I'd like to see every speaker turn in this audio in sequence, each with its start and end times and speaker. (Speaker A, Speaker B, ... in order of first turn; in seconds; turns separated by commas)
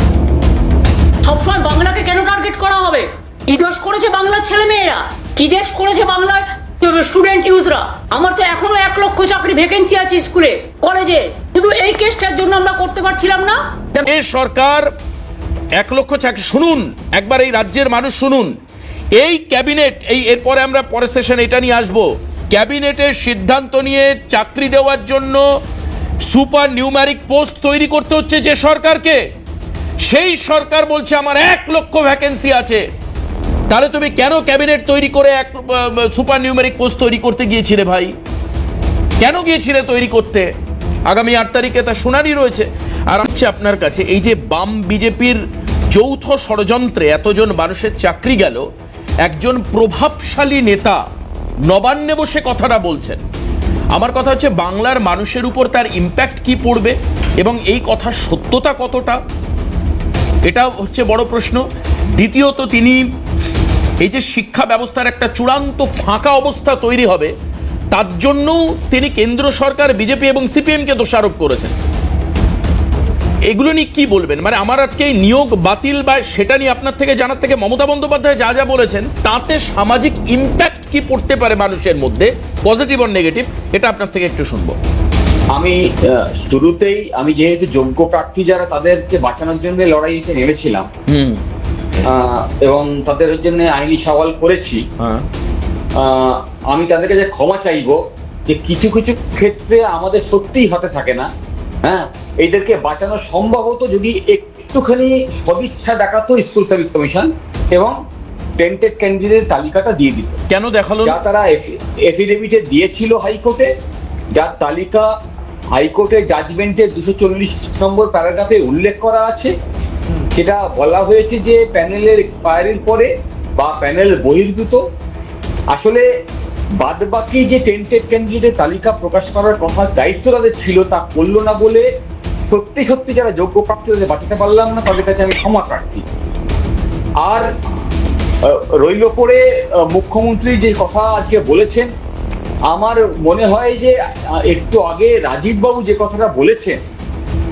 Speaker A: 1.2-14.0, Speaker B: 14.0-14.9, Speaker B: 15.8-18.5, Speaker B: 19.1-25.5, Speaker B: 26.2-29.2, Speaker B: 30.0-32.8, Speaker B: 33.7-38.1, Speaker B: 39.2-40.5, Speaker B: 41.1-48.7, Speaker B: 49.2-51.0, Speaker B: 51.6-53.2, Speaker B: 53.9-59.2, Speaker B: 60.5-61.6, Speaker B: 62.1-63.1, Speaker B: 64.0-67.3, Speaker B: 67.9-71.8, Speaker B: 73.5-84.8, Speaker C: 85.5-90.9, Speaker B: 91.1-91.4, Speaker C: 92.0-94.9, Speaker B: 95.0-95.2, Speaker C: 96.0-101.3, Speaker C: 101.8-108.0, Speaker C: 108.6-110.4, Speaker B: 110.5-111.2, Speaker C: 111.0-113.7, Speaker C: 114.3-115.1, Speaker C: 115.7-119.5, Speaker C: 120.3-124.8, Speaker C: 125.7-126.1, Speaker C: 126.8-131.9, Speaker C: 132.5-136.0, Speaker C: 137.2-137.5, Speaker C: 138.4-141.9, Speaker C: 142.7-146.8